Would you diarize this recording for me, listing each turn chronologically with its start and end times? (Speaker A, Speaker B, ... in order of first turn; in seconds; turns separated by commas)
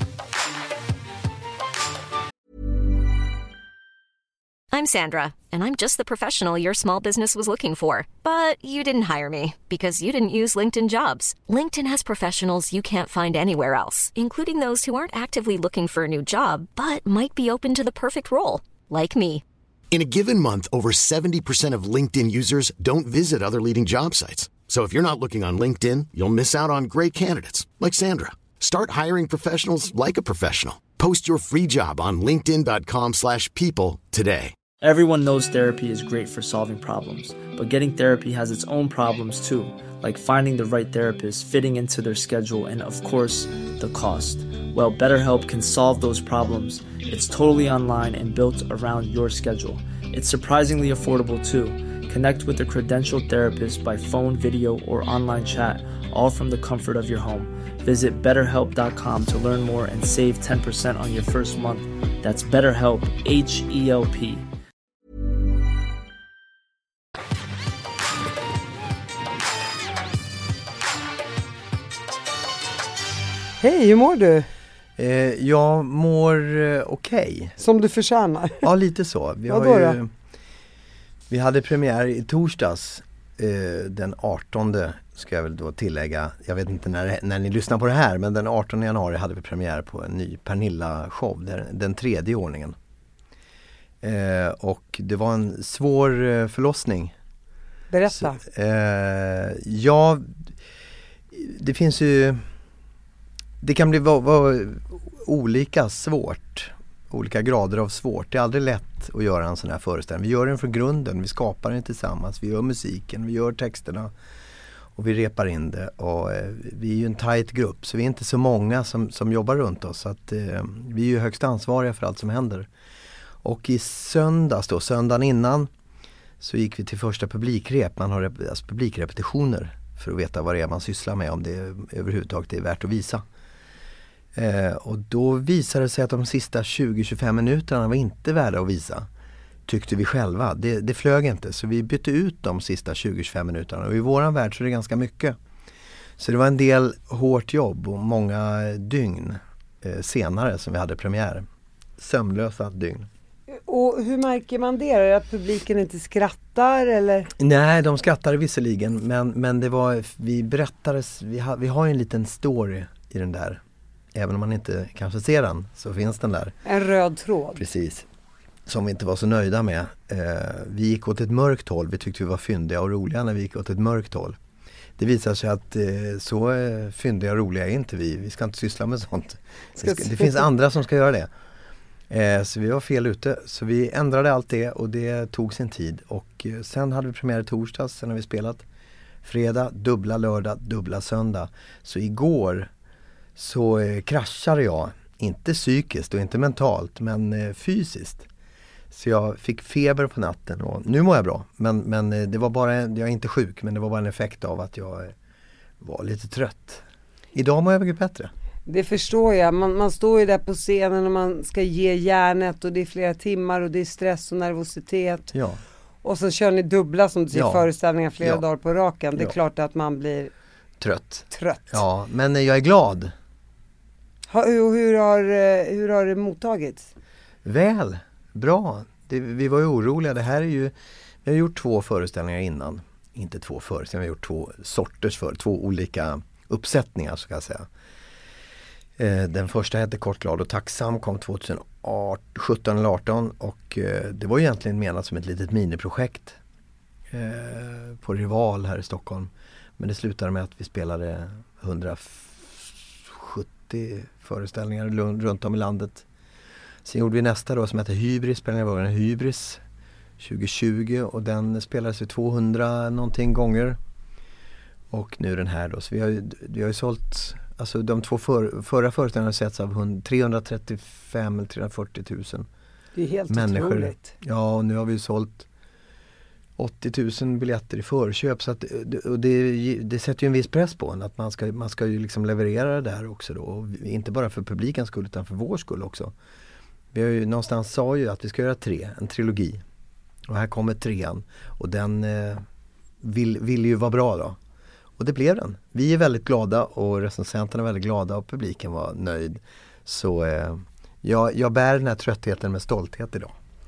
Speaker A: 4.7-19.4, Speaker B: 19.9-34.5, Speaker C: 34.8-64.5, Speaker D: 73.6-74.5, Speaker E: 75.0-77.6, Speaker D: 77.6-78.7, Speaker E: 78.6-80.1, Speaker D: 79.5-80.0, Speaker E: 81.3-92.8, Speaker E: 94.0-97.1, Speaker D: 97.9-98.4, Speaker E: 98.1-100.5, Speaker E: 101.3-102.5, Speaker E: 103.6-114.1, Speaker E: 115.0-122.7, Speaker E: 123.4-125.7, Speaker E: 126.4-133.2, Speaker E: 134.3-139.1, Speaker E: 139.7-145.3, Speaker E: 146.2-151.4, Speaker E: 152.0-153.1, Speaker D: 153.5-157.3, Speaker E: 157.4-163.6, Speaker E: 164.1-166.5, Speaker D: 166.6-167.6, Speaker E: 167.6-168.1, Speaker E: 168.7-174.4, Speaker E: 175.0-181.3, Speaker D: 179.8-180.4, Speaker E: 182.1-188.6, Speaker E: 189.2-192.7, Speaker E: 193.3-198.2, Speaker E: 198.9-205.1, Speaker E: 205.8-206.8, Speaker E: 207.3-208.3, Speaker D: 208.7-215.3, Speaker E: 215.3-215.6, Speaker D: 216.0-220.3, Speaker E: 217.3-217.7, Speaker E: 220.8-223.1, Speaker D: 221.3-221.8, Speaker D: 224.3-226.9, Speaker E: 227.4-237.7, Speaker E: 239.0-246.4, Speaker E: 247.1-256.1, Speaker E: 256.9-259.6, Speaker E: 260.2-263.8, Speaker E: 264.9-272.5, Speaker D: 272.9-274.1, Speaker E: 273.3-275.5, Speaker E: 276.6-286.1, Speaker E: 286.9-289.6, Speaker E: 290.3-292.4, Speaker E: 293.0-294.4, Speaker E: 295.0-303.4